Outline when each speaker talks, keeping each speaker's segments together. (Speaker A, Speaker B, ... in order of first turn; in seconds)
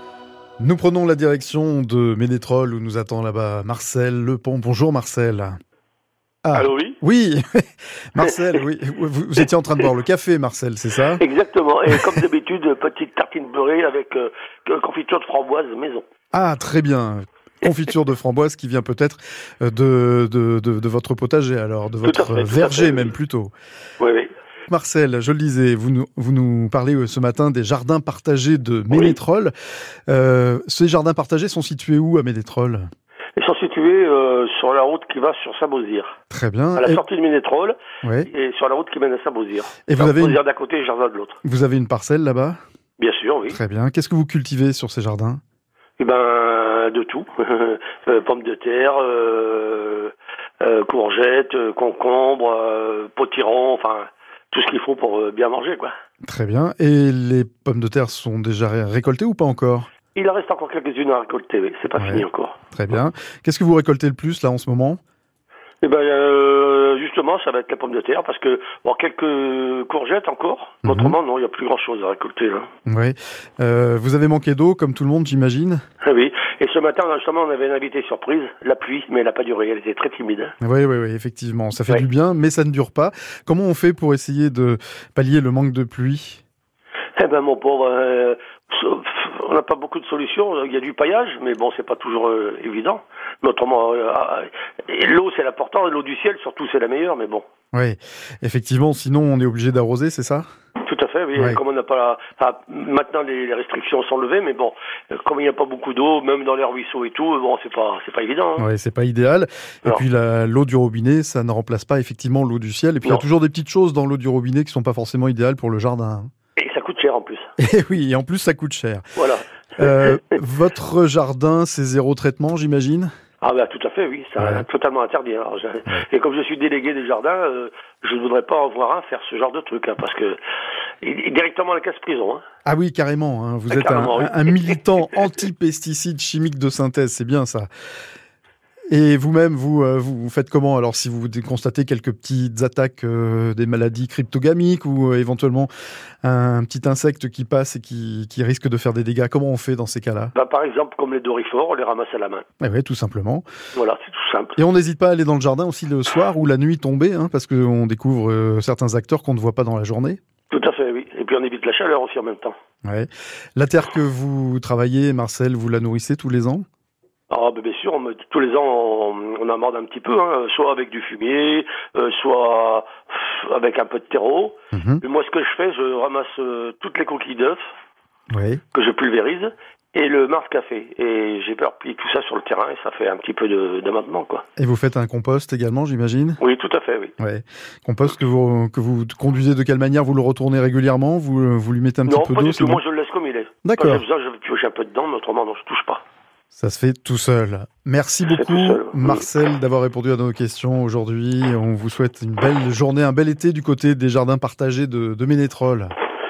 Speaker A: 0.6-5.6, 6.4-11.2, 16.3-23.5, 24.7-29.5, 30.1-32.9, 36.3-37.0, 38.0-38.3, 39.9-40.4, 41.4-42.6, 43.5-45.4, 56.2-59.9, 62.0-65.0, 70.8-71.2, 72.8-75.8, 80.6-86.4, 97.7-100.5, 101.3-101.6, 108.6-116.3, 117.6-119.0, 119.8-123.1, 124.4-124.7, 132.6-137.7, 138.9-145.7, 146.2-150.3, 152.6-153.4, 154.6-160.2, 162.8-166.6, 174.7-175.0, 178.3-178.6, 184.6-186.4, 187.2-192.8, 193.6-194.0, 196.5-205.9
Speaker B: 6.5-7.0, 8.2-8.6, 11.2-16.0, 22.0-23.1, 24.0-24.3, 28.9-29.2, 33.4-36.2, 36.8-41.4, 43.0-43.6, 46.0-55.9, 60.1-62.6, 65.8-72.7, 76.0-80.5, 87.2-97.4, 100.8-108.7, 116.6-117.5, 119.2-120.4, 123.4-130.4, 131.0-132.4, 133.7-134.8, 150.3-152.4, 153.8-154.6, 160.5-162.6, 167.3-177.7, 178.7-184.4, 186.4-187.1, 192.1-196.0, 198.3-199.2